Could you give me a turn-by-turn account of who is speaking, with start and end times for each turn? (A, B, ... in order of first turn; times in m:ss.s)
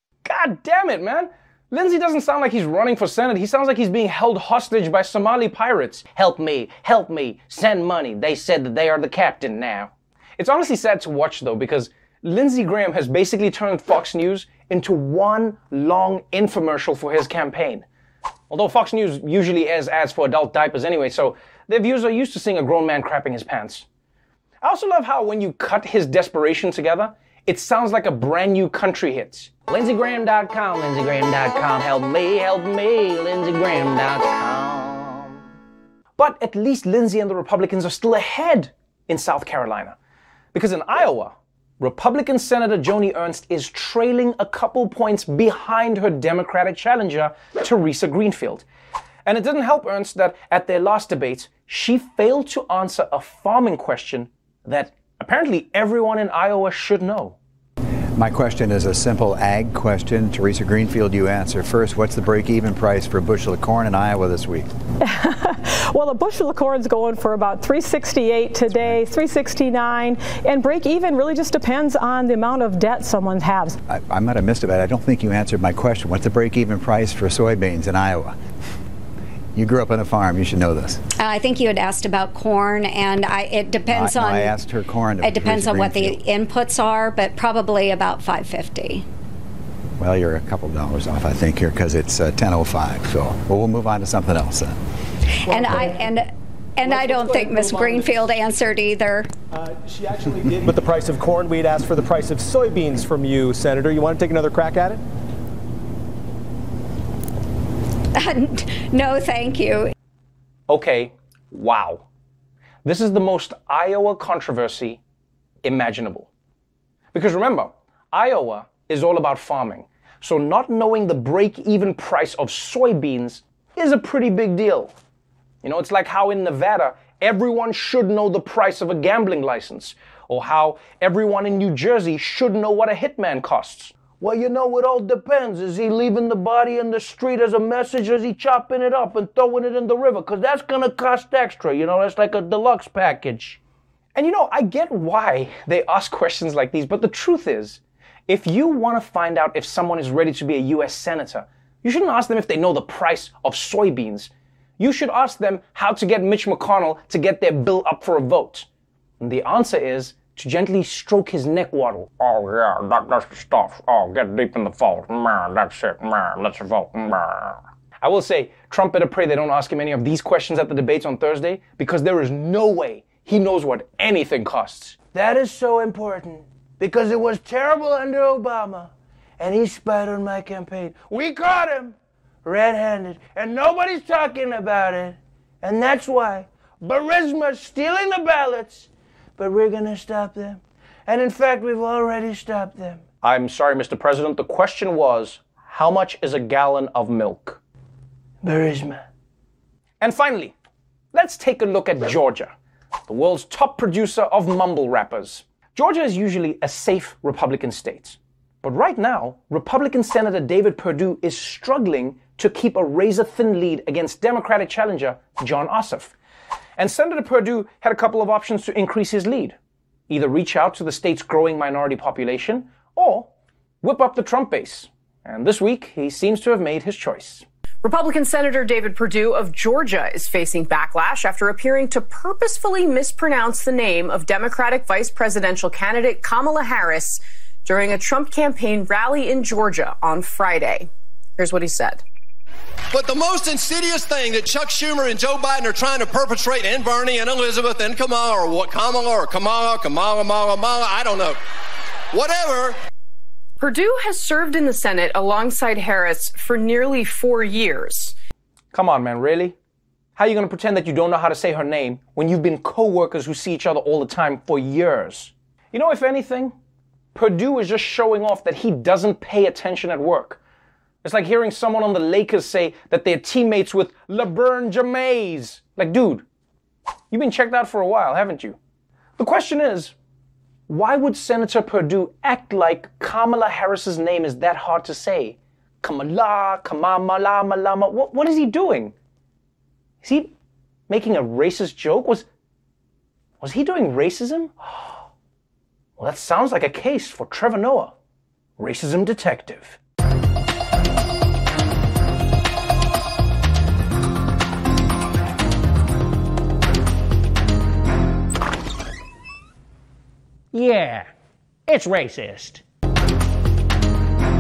0:00.2-0:17.8 A
0:18.5-0:23.8 A
0:24.6-0:35.4 A
0:36.2-0:40.0 A
0:40.5-0:48.6 A
0:49.2-0:57.4 A
0:58.2-1:04.7 B
1:05.0-1:13.8 C
1:08.7-1:09.0 B
1:13.9-1:18.4 B
1:19.5-1:21.0 B
1:21.2-1:24.5 D
1:23.9-1:26.2 B
1:25.2-1:29.0 D
1:30.0-1:34.8 B
1:35.5-1:36.2 D
1:35.5-1:35.8 E
1:36.8-1:38.3 E
1:36.8-1:39.3 D
1:39.5-1:45.0 E
1:48.2-1:49.9 D
1:50.7-1:52.0 A
1:52.8-1:55.0 A
1:55.6-1:56.3 A
1:57.1-2:04.9 A
2:05.6-2:23.6 A
2:24.1-2:38.6 A
2:39.2-3:17.6 A
3:18.4-3:19.0 A
3:20.0-3:20.5 A
3:21.1-3:22.5 A
3:23.1-3:36.1 A
3:36.8-3:39.6 A
3:40.1-3:43.3 A
3:43.8-3:47.4 A
3:47.8-4:02.0 F
4:02.9-4:11.4 G
4:12.1-4:12.8 G
4:13.6-4:18.1 F
4:18.7-4:19.5 A
4:20.2-4:26.5 A
4:27.1-4:30.4 A
4:31.0-4:36.2 A
4:37.1-4:38.6 A
4:39.2-4:39.9 A
4:40.7-4:48.9 A
4:50.0-4:50.3 A
4:50.9-4:52.2 A
4:53.4-4:54.5 A
4:56.0-4:57.9 A
4:58.6-4:59.8 A
5:10.6-5:11.0 A
5:11.7-5:12.4 A